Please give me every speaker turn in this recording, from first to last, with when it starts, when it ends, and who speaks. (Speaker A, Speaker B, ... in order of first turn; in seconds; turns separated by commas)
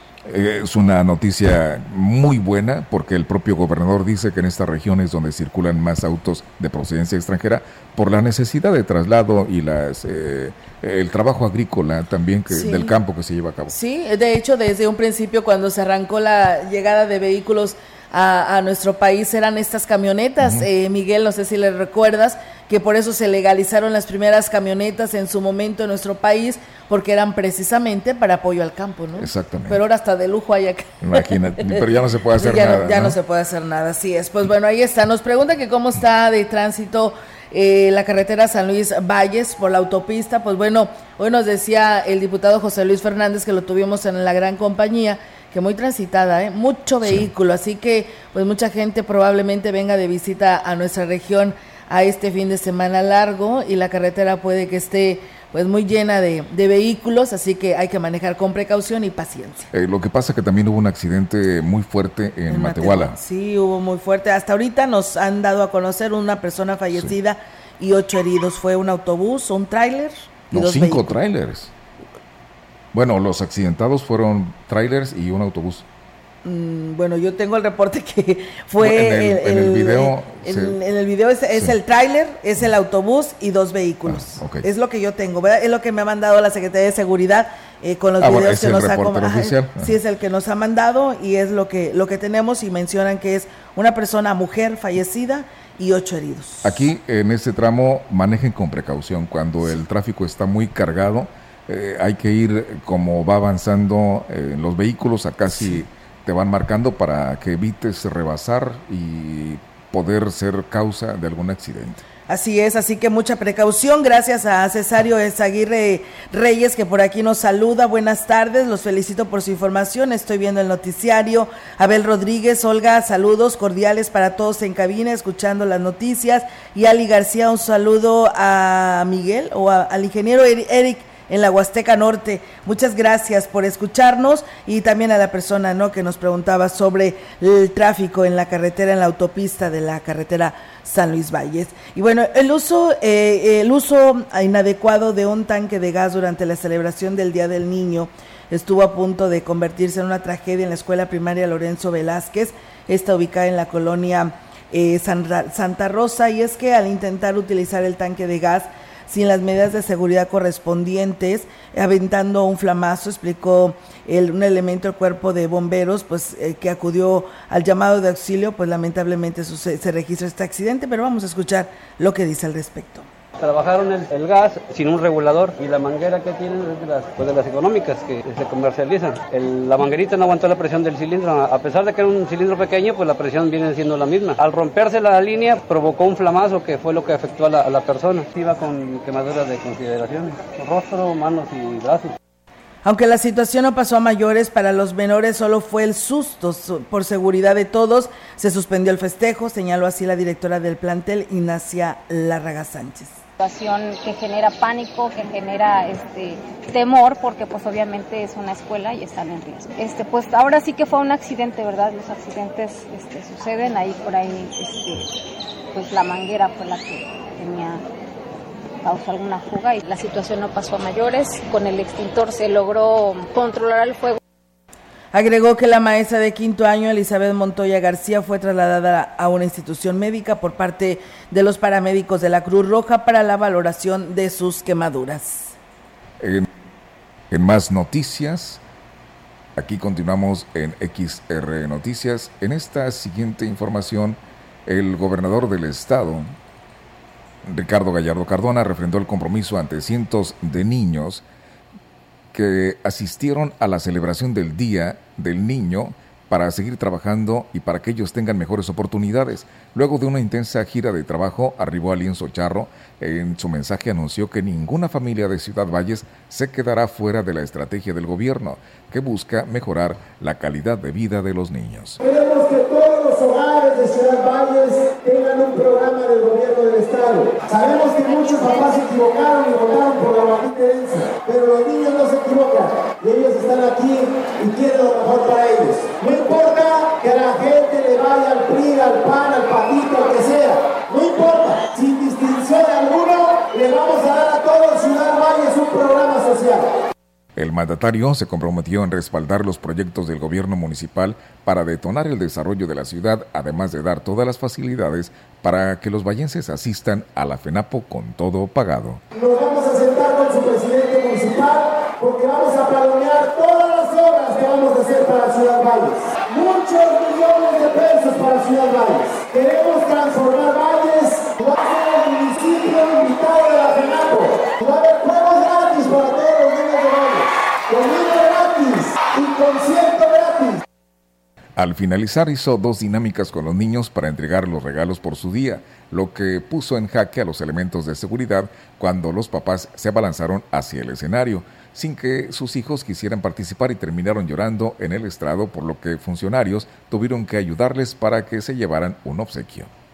Speaker A: 0.3-13.7, Speaker B: 12.5-12.9, Speaker B: 13.7-31.8, Speaker A: 20.4-20.7, Speaker A: 29.2-29.8, Speaker A: 31.0-33.2, Speaker B: 32.4-59.7, Speaker A: 59.7-63.2, Speaker B: 62.5-71.2, Speaker A: 70.5-71.7, Speaker A: 72.9-75.9, Speaker B: 76.4-96.8, Speaker A: 78.8-80.8, Speaker A: 84.1-84.7, Speaker A: 88.2-90.0, Speaker A: 96.6-112.0, Speaker B: 112.3-173.1, Speaker C: 173.4-192.2, Speaker B: 192.8-203.2, Speaker D: 203.4-215.1, Speaker D: 215.7-217.8, Speaker D: 218.8-224.2, Speaker B: 225.1-235.6, Speaker A: 236.2-236.5, Speaker A: 237.3-238.6, Speaker A: 239.6-246.3, Speaker A: 247.4-251.2, Speaker A: 252.3-272.0, Speaker E: 272.0-296.7, Speaker A: 297.4-309.0, Speaker E: 309.1-330.6, Speaker A: 331.6-349.7